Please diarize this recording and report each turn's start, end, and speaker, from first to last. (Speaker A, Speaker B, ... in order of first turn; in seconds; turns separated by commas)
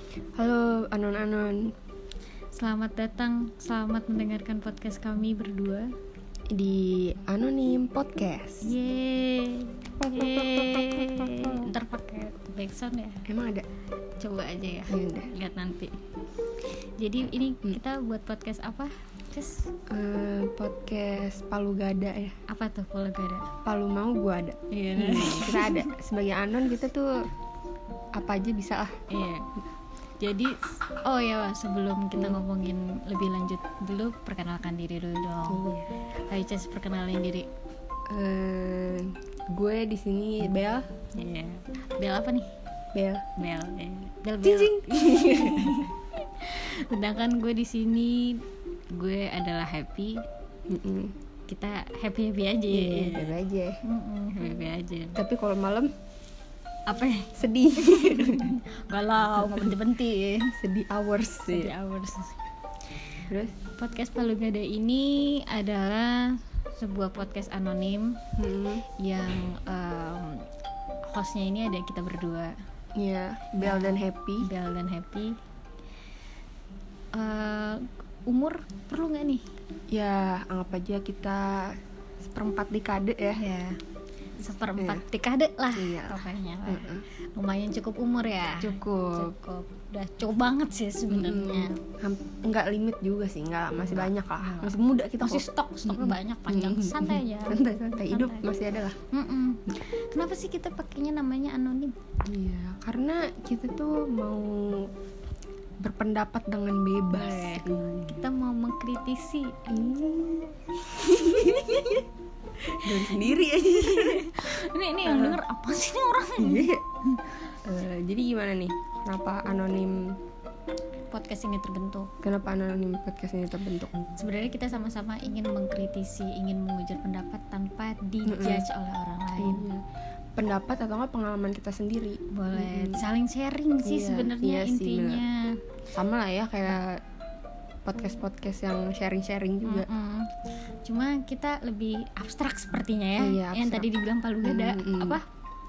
Speaker A: 0.4-1.7, Speaker B: 2.5-5.9, Speaker A: 6.5-8.7, Speaker B: 8.6-13.2, Speaker A: 10.0-11.7, Speaker A: 13.3-13.7, Speaker B: 14.2-15.9, Speaker A: 14.9-15.3, Speaker B: 17.0-19.7, Speaker A: 19.9-22.4, Speaker B: 22.5-23.5, Speaker A: 23.6-27.1, Speaker B: 24.7-25.9, Speaker A: 28.2-28.9, Speaker B: 29.1-29.5, Speaker B: 30.2-35.6, Speaker A: 35.5-35.9, Speaker B: 36.2-37.5, Speaker A: 38.1-40.9, Speaker B: 41.2-42.5, Speaker A: 42.9-43.2, Speaker B: 43.4-48.4, Speaker A: 44.4-45.8, Speaker B: 48.9-50.2, Speaker A: 50.7-51.1, Speaker B: 51.5-55.2, Speaker A: 52.7-53.8, Speaker A: 55.2-55.9, Speaker B: 56.9-60.5, Speaker A: 57.4-58.5, Speaker A: 59.4-59.8, Speaker A: 60.6-61.7, Speaker B: 61.5-62.4, Speaker A: 63.3-63.5, Speaker B: 63.8-68.2, Speaker A: 68.4-68.9, Speaker B: 69.0-70.5, Speaker B: 71.1-72.5, Speaker A: 73.0-74.5, Speaker B: 73.6-75.4, Speaker B: 77.1-79.4, Speaker A: 79.9-83.4, Speaker B: 83.4-83.8, Speaker B: 84.4-91.8, Speaker A: 84.8-85.0, Speaker A: 85.7-87.0, Speaker A: 88.6-89.3, Speaker A: 91.1-99.0, Speaker B: 93.8-98.5, Speaker B: 99.0-101.9, Speaker A: 102.2-104.9, Speaker A: 105.8-108.2, Speaker B: 107.1-110.1, Speaker A: 109.7-112.0, Speaker B: 110.9-112.1, Speaker B: 112.6-117.5, Speaker A: 112.8-114.2, Speaker A: 115.0-115.4, Speaker A: 116.4-116.8, Speaker A: 117.7-120.2, Speaker B: 121.1-122.1, Speaker A: 122.2-124.0, Speaker B: 124.2-129.7, Speaker A: 128.3-128.7, Speaker A: 129.4-129.8, Speaker A: 130.4-133.0, Speaker B: 132.3-135.6, Speaker A: 133.8-135.2, Speaker A: 135.9-137.0, Speaker A: 137.9-139.9, Speaker B: 139.6-140.3, Speaker B: 140.8-145.2, Speaker A: 143.2-143.9, Speaker A: 144.4-145.2